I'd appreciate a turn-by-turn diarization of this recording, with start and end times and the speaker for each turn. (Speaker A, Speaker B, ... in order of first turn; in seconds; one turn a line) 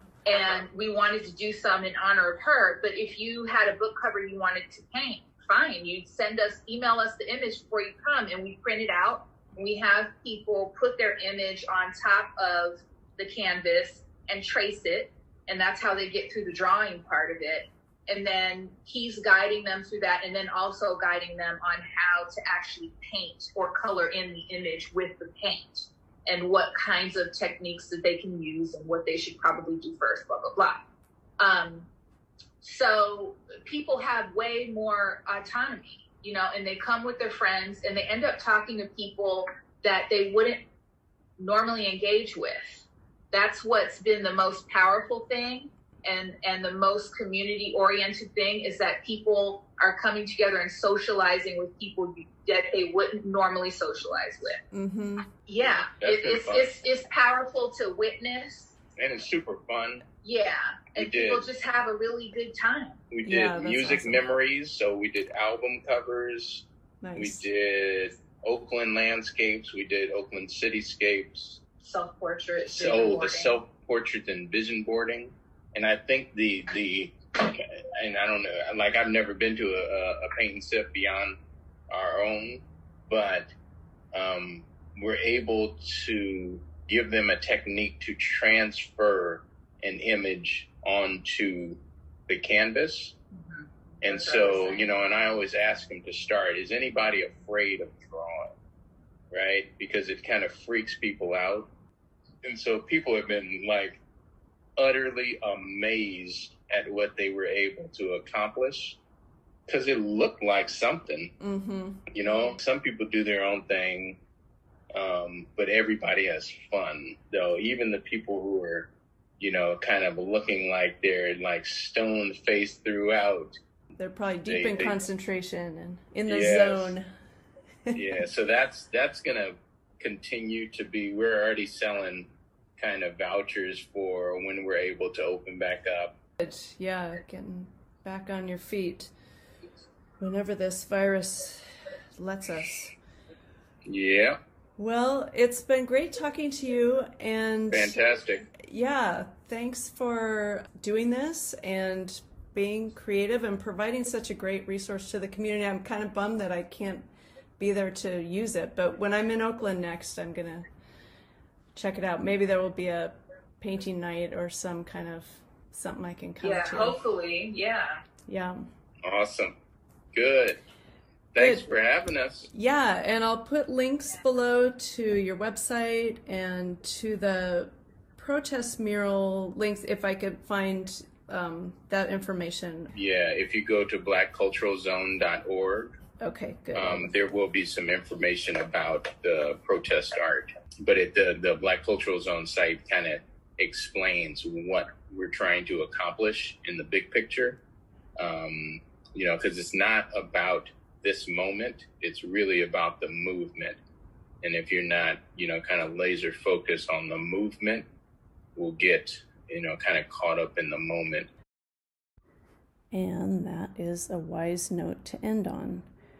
Speaker A: 0.2-30.8
Speaker A: 31.4-31.9
Speaker A: 32.6-40.6
Speaker A: 41.4-54.6
Speaker B: 54.7-55.3
Speaker A: 55.5-58.8
Speaker C: 55.7-56.7
Speaker C: 59.0-60.1
Speaker A: 60.2-63.0
Speaker C: 61.0-61.5
Speaker C: 63.1-66.7
Speaker B: 63.2-64.2
Speaker B: 67.0-67.4
Speaker C: 67.2-71.6
Speaker A: 71.8-73.6
Speaker C: 72.7-81.4
Speaker C: 81.9-83.5
Speaker C: 84.1-93.2
Speaker A: 93.3-94.9
Speaker C: 94.0-98.5
Speaker C: 99.3-101.7
Speaker C: 102.4-104.0
Speaker C: 104.8-109.0
Speaker C: 109.7-111.3
Speaker B: 111.4-112.1
Speaker C: 112.1-114.2
Speaker C: 114.9-123.6
Speaker B: 124.0-127.1
Speaker C: 124.5-125.0
Speaker C: 126.3-127.0
Speaker C: 127.9-136.2
Speaker B: 136.4-139.1
Speaker B: 140.2-142.9
Speaker C: 143.8-144.4
Speaker B: 144.8-148.0
Speaker C: 147.7-148.5
Speaker B: 148.6-157.1
Speaker B: 157.6-160.7
Speaker B: 161.8-167.0
Speaker A: 166.4-168.0
Speaker B: 168.3-168.7
Speaker C: 169.0-169.6
Speaker C: 170.1-170.6
Speaker C: 171.3-172.5
Speaker B: 171.4-171.7
Speaker B: 172.5-182.9
Speaker C: 182.9-186.0
Speaker B: 186.2-187.1
Speaker C: 186.7-197.6
Speaker C: 198.2-203.8
Speaker C: 204.4-207.9
Speaker C: 208.6-211.3
Speaker B: 212.9-215.9